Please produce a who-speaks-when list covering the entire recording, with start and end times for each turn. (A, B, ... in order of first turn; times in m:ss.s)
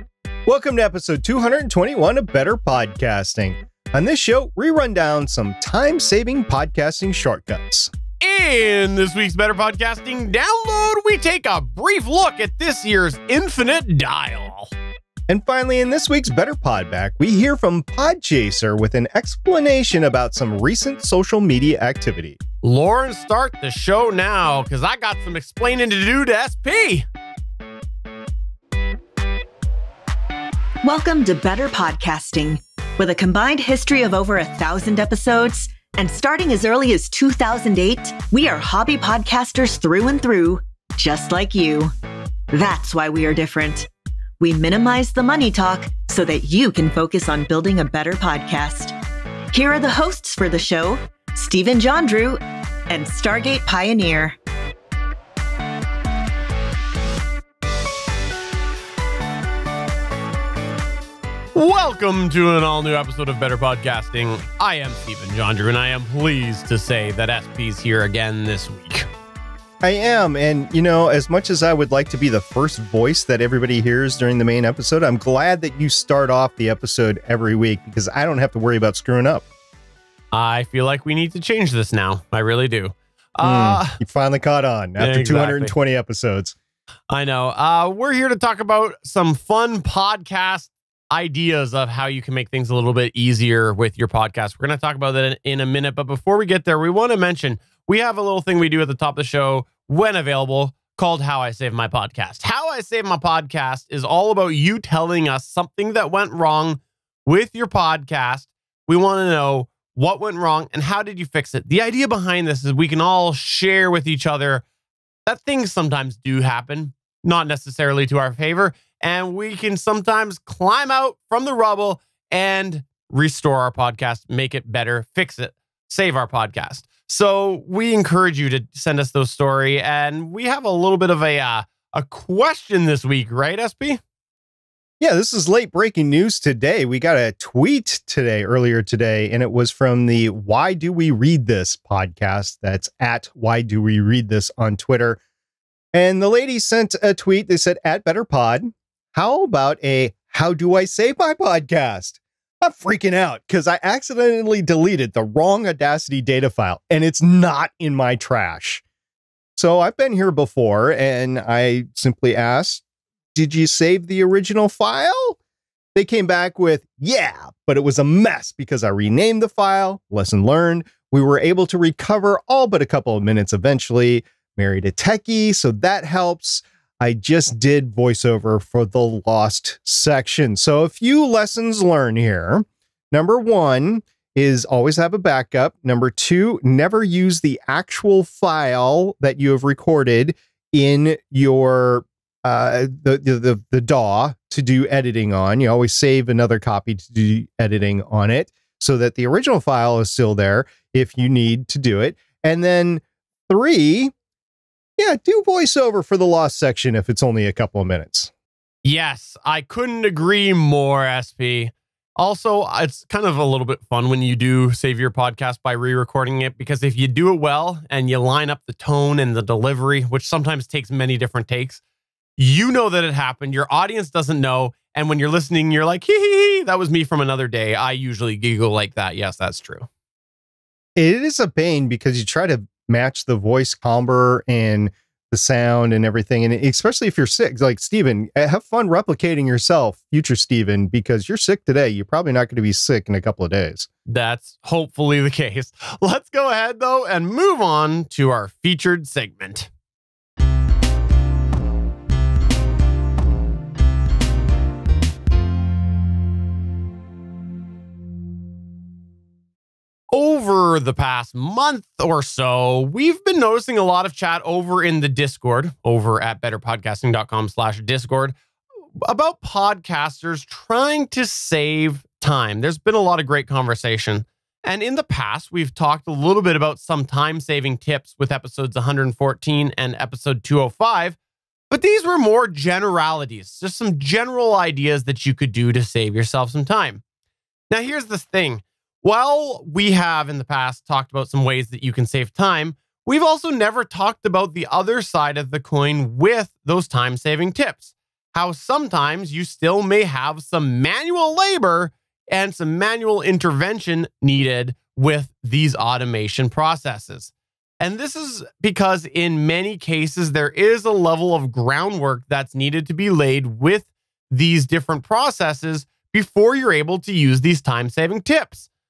0:00.5-0:07.9 A
0:08.2-0:14.7 B
0:15.3-0:22.4 A
0:22.6-0:27.0 B
0:30.8-0:41.9 C
0:42.5-0:43.9 C
0:44.4-0:49.0 C
0:49.5-0:54.4 C
1:01.6-1:09.1 B
1:09.8-1:19.4 A
1:20.3-1:24.0 B
1:23.4-1:26.6 A
1:25.0-1:25.8 B
1:27.1-1:54.6 B
1:55.3-2:14.0 B
2:15.0-2:25.2 A
2:25.9-2:38.8 A
2:39.6-2:42.8 A
2:43.3-2:45.4 A
2:45.9-3:24.1 A
3:25.0-3:28.3 A
3:28.8-3:41.8 B
3:42.4-3:49.9 B
3:51.0-4:03.9 A
4:04.1-4:09.7 B
4:20.1-4:28.4 B
4:29.0-4:41.2 B
4:41.7-4:47.0 B
4:47.7-5:18.7 B